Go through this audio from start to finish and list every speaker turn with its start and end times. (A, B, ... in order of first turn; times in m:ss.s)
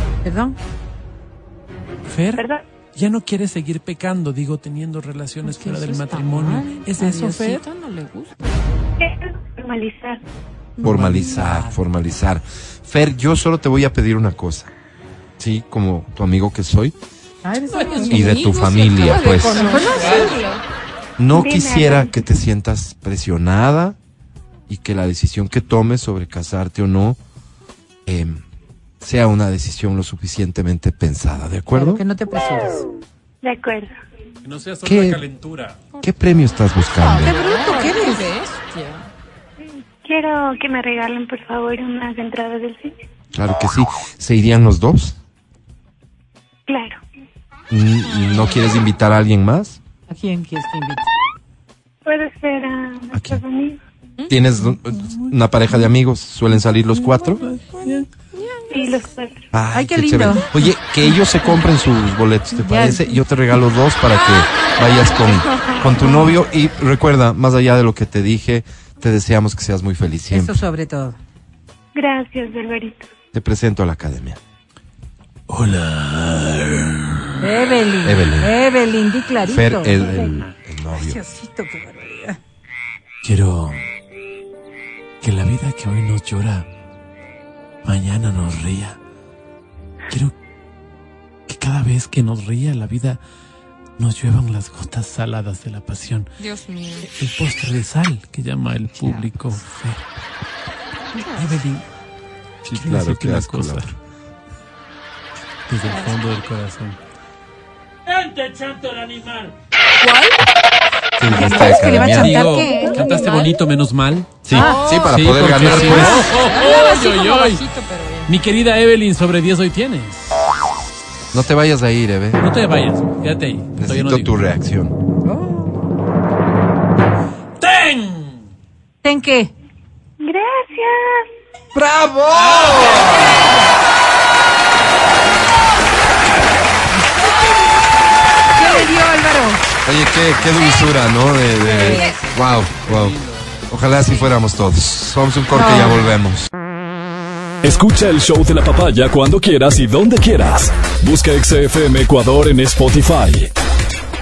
0:00.2-0:00.6 A
0:02.1-0:07.6 B
0:02.3-0:02.6 C
0:05.4-0:08.3 D
0:09.0-0:10.2 C
0:10.8-0:11.8 A
0:10.8-0:14.7 E
0:15.4-0:16.9 E
0:17.4-0:18.5 A
0:17.7-0:18.1 B
0:17.8-0:20.6 D
0:18.0-0:19.7 E
0:19.5-0:20.4 A
0:19.6-0:20.4 B
0:21.2-0:24.0 E
0:21.3-0:22.2 C
0:24.7-0:27.2 E
0:28.0-0:28.4 E
0:29.0-0:32.0 E
0:31.7-0:32.8 A
0:33.4-0:33.9 C
0:34.4-0:35.8 B
0:34.8-0:35.2 E
0:36.0-0:37.4 E
0:37.0-0:39.1 D
0:37.1-0:38.3 A
0:40.0-0:42.9 C
0:43.3-0:45.2 E
0:46.7-0:47.0 C
0:47.7-0:49.8 E
0:48.1-0:48.7 D
0:50.1-0:51.0 A
0:52.0-0:53.8 C
0:53.1-0:53.4 E
0:54.3-0:57.4 E
0:57.4-0:58.1 B
0:58.3-0:59.1 D
0:58.7-0:59.5 C
0:59.5-1:10.6 E
0:59.7-1:01.2 A
1:02.6-1:03.2 A
1:04.1-1:04.8 D
1:05.6-1:06.3 D
1:10.2-1:11.2 A
1:11.9-1:13.1 C
1:13.3-1:14.4 E
1:15.5-1:17.2 B
1:17.4-1:20.2 A
1:18.0-1:18.5 E
1:19.4-1:21.2 E
1:20.9-1:22.4 A
1:23.2-1:23.8 B
1:25.2-1:26.7 B
1:27.8-1:29.0 B
1:31.5-1:33.2 B
1:34.0-1:36.3 B
1:36.4-1:37.1 D
1:37.0-1:40.0 B
1:38.9-1:39.6 A
1:41.2-1:41.6 D
1:41.4-1:41.8 B
1:42.6-1:43.8 E
1:42.6-1:43.9 B
1:45.7-1:47.0 B
1:48.1-1:49.5 B
1:50.0-1:50.4 D
1:51.2-1:52.4 E
1:51.2-1:53.2 A
1:51.9-1:54.3 B
1:52.7-1:53.5 D
1:54.4-1:56.3 E
1:54.5-1:54.9 A
1:54.6-1:58.3 D
1:54.9-1:57.6 B
1:55.7-1:56.3 A
1:58.2-2:00.3 B
2:01.3-2:02.4 E
2:02.4-2:04.4 B
2:03.8-2:05.0 E
2:05.2-2:05.7 A
2:07.6-2:08.4 B
2:09.0-2:09.5 A
2:10.2-2:11.2 C
2:11.7-2:13.5 E
2:12.3-2:13.5 B
2:18.5-2:19.6 A
2:19.8-2:23.2 E
2:20.6-2:20.9 D
2:21.6-2:22.2 A
2:21.9-2:22.2 D
2:22.8-2:24.2 B
2:23.7-2:26.5 E
2:25.5-2:26.1 A
2:27.6-2:33.5 F